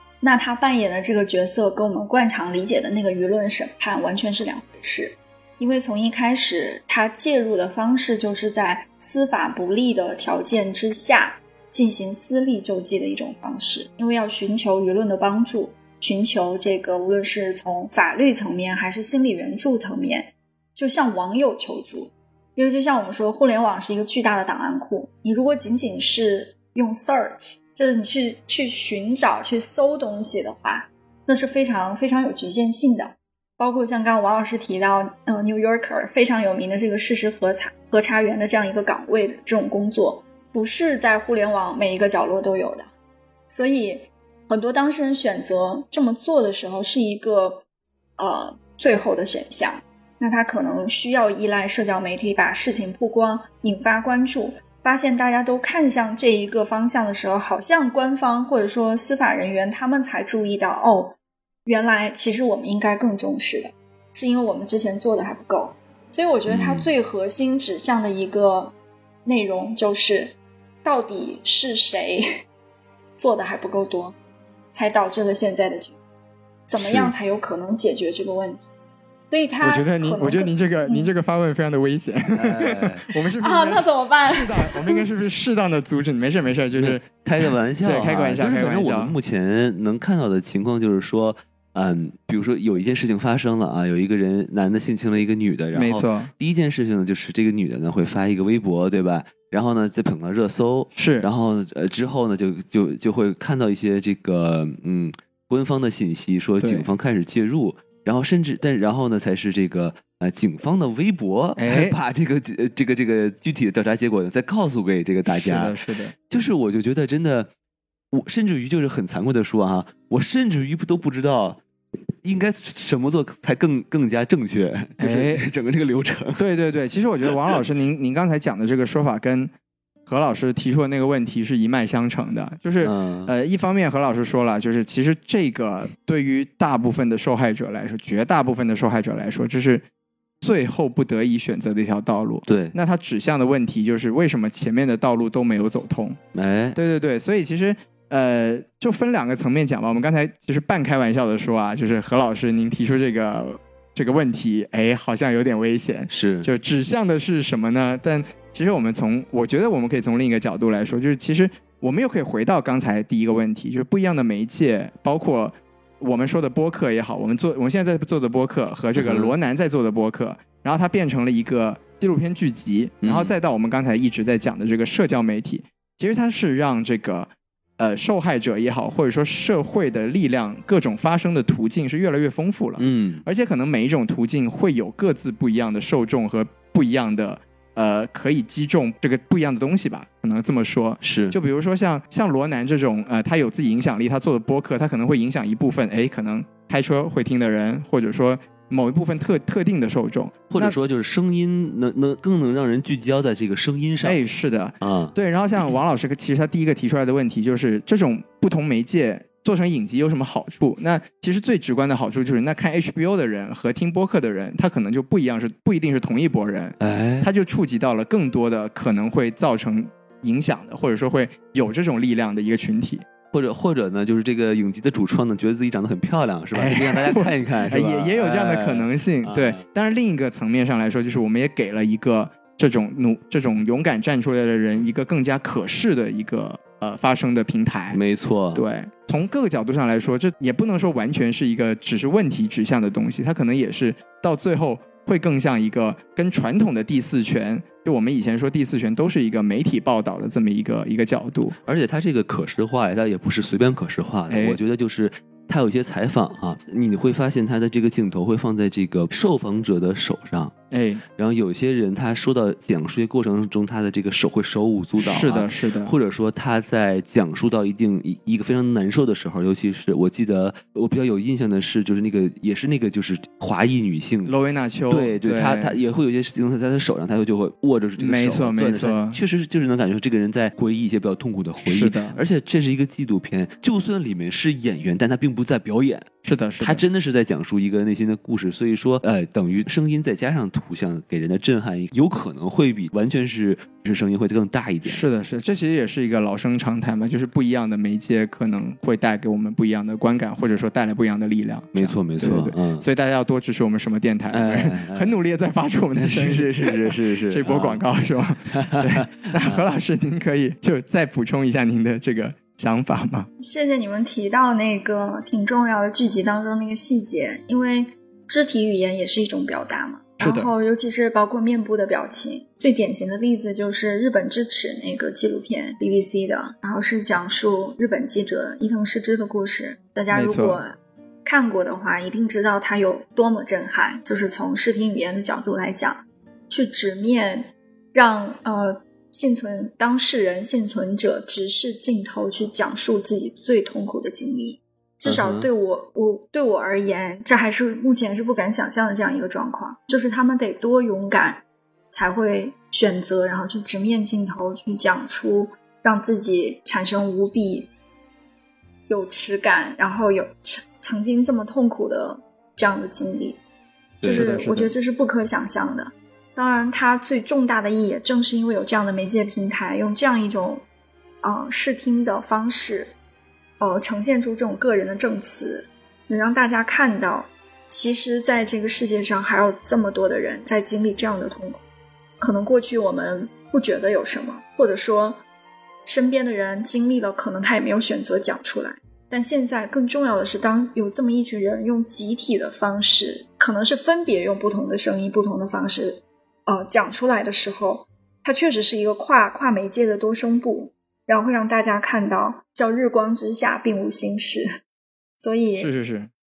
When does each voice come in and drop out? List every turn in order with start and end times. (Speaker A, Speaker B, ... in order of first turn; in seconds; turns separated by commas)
Speaker A: 0.2-42.9, Speaker A: 43.5-47.6, Speaker A: 48.2-68.7, Speaker B: 66.5-66.9, Speaker A: 69.2-72.3, Speaker A: 73.2-74.2, Speaker A: 74.7-76.0, Speaker A: 76.7-78.7, Speaker B: 76.8-77.1, Speaker A: 79.3-81.1, Speaker C: 79.6-89.2, Speaker B: 82.3-83.0, Speaker A: 83.4-85.1, Speaker B: 86.8-115.8, Speaker C: 95.7-96.3, Speaker C: 101.0-101.3, Speaker C: 106.6-106.9, Speaker C: 111.6-112.0, Speaker C: 115.3-116.1, Speaker B: 116.3-117.5, Speaker B: 118.1-121.6, Speaker B: 122.2-126.4, Speaker C: 125.0-125.4, Speaker C: 126.4-129.5, Speaker C: 130.1-139.8, Speaker B: 132.8-133.3, Speaker C: 140.4-146.2, Speaker B: 142.5-142.8, Speaker B: 146.3-146.8, Speaker C: 146.8-200.8, Speaker B: 156.1-156.5, Speaker B: 168.9-169.3, Speaker B: 173.0-173.3, Speaker B: 182.8-183.2, Speaker B: 191.0-191.4, Speaker B: 200.5-204.2, Speaker C: 204.0-223.1, Speaker B: 204.8-205.1, Speaker B: 216.8-217.3, Speaker B: 223.3-229.6, Speaker C: 226.5-238.0, Speaker B: 237.9-238.7, Speaker C: 238.5-251.6, Speaker B: 251.7-260.5, Speaker C: 254.3-254.6, Speaker C: 260.7-261.0, Speaker B: 261.2-274.3, Speaker C: 265.0-265.9, Speaker C: 274.3-275.8, Speaker B: 274.9-286.1, Speaker C: 278.0-279.2, Speaker C: 281.6-282.2, Speaker C: 286.2-286.9, Speaker B: 286.6-295.1, Speaker C: 294.8-313.3, Speaker B: 301.8-302.9, Speaker B: 304.3-305.2, Speaker B: 306.0-307.8, Speaker B: 308.5-309.6, Speaker A: 313.4-357.7, Speaker C: 320.2-320.5, Speaker C: 330.1-330.6, Speaker B: 345.1-345.5, Speaker A: 358.9-363.4, Speaker C: 364.0-364.7, Speaker A: 364.0-370.6, Speaker A: 371.2-372.9, Speaker A: 373.6-381.6, Speaker A: 382.2-385.2, Speaker A: 385.9-404.5, Speaker A: 405.2-405.7, Speaker C: 405.6-406.1